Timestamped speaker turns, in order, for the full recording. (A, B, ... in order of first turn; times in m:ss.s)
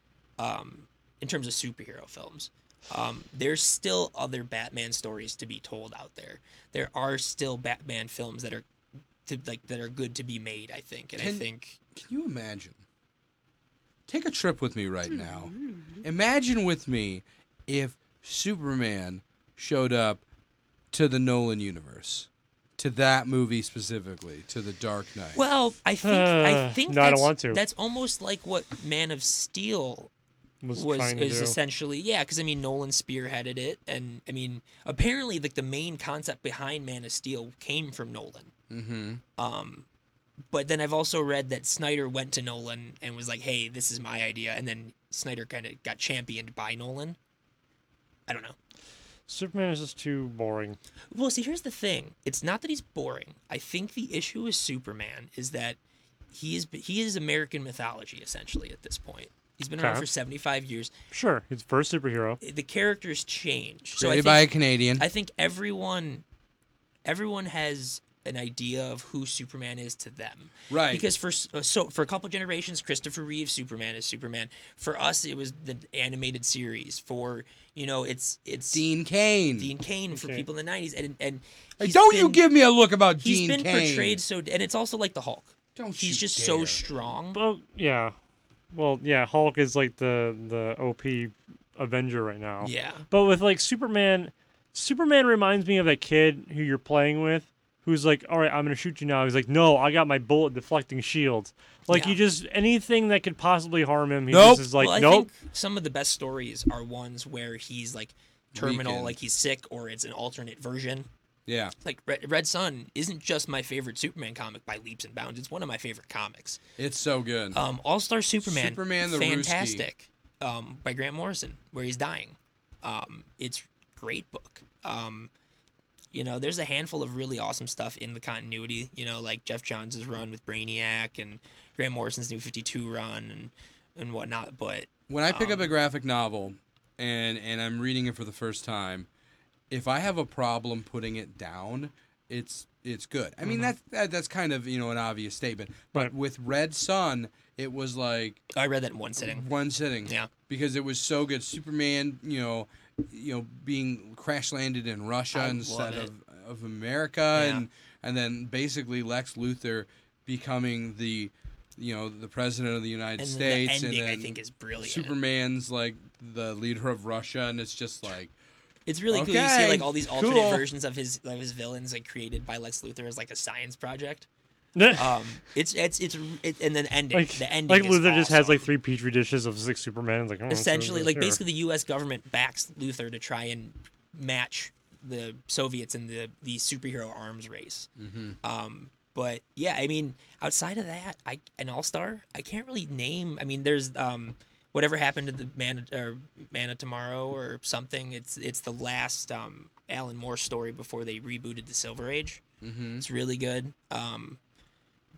0:00.4-0:08.6 A
0:09.3-0:11.8 A
0:11.2-0:12.8 B
0:14.1-0:20.2 B
0:20.9-0:25.4 B
0:25.3-0:30.1 A
0:26.0-0:27.6 C
0:30.6-0:31.6 C
0:30.7-0:38.5 A
0:38.7-0:39.2 B
0:39.4-0:39.9 A
0:40.5-0:47.2 A
0:48.3-0:48.6 A
0:49.3-0:50.8 C
0:51.1-0:55.8 A
0:56.3-1:00.9 A
0:59.8-1:00.1 C
1:01.1-1:02.4 C
1:02.4-1:06.2 A
1:04.0-1:05.0 B
1:07.0-1:18.8 A
1:10.7-1:11.0 B
1:18.7-1:19.7 B
1:19.6-1:22.4 A
1:20.1-1:20.5 C
1:21.8-1:24.2 B
1:23.2-1:27.4 A
1:25.8-1:26.8 B
1:27.3-1:28.2 C
1:28.7-1:45.3 C
1:32.6-1:33.1 A
1:41.9-1:42.2 A
1:44.3-1:44.7 B
1:44.8-1:51.1 A
1:48.5-1:49.2 B
1:51.5-1:51.7 B
1:51.8-1:56.6 A
1:56.8-1:57.6 B
1:57.5-2:05.3 A
1:58.4-1:59.8 B
2:06.1-2:15.7 A
2:15.1-2:19.1 B
2:19.7-2:28.4 B
2:23.4-2:23.7 A
2:28.5-2:29.5 A
2:29.2-2:48.3 B
2:30.0-2:30.3 A
2:35.3-2:36.1 A
2:37.3-2:37.6 A
2:43.2-2:45.2 A
2:48.9-2:54.3 A
2:49.1-2:50.6 B
2:54.8-2:55.1 C
2:54.9-2:58.7 A
2:57.1-3:01.4 C
3:00.5-3:07.9 A
3:08.0-3:08.4 B
3:08.4-3:22.4 A
3:22.6-3:23.0 B
3:23.0-3:24.4 A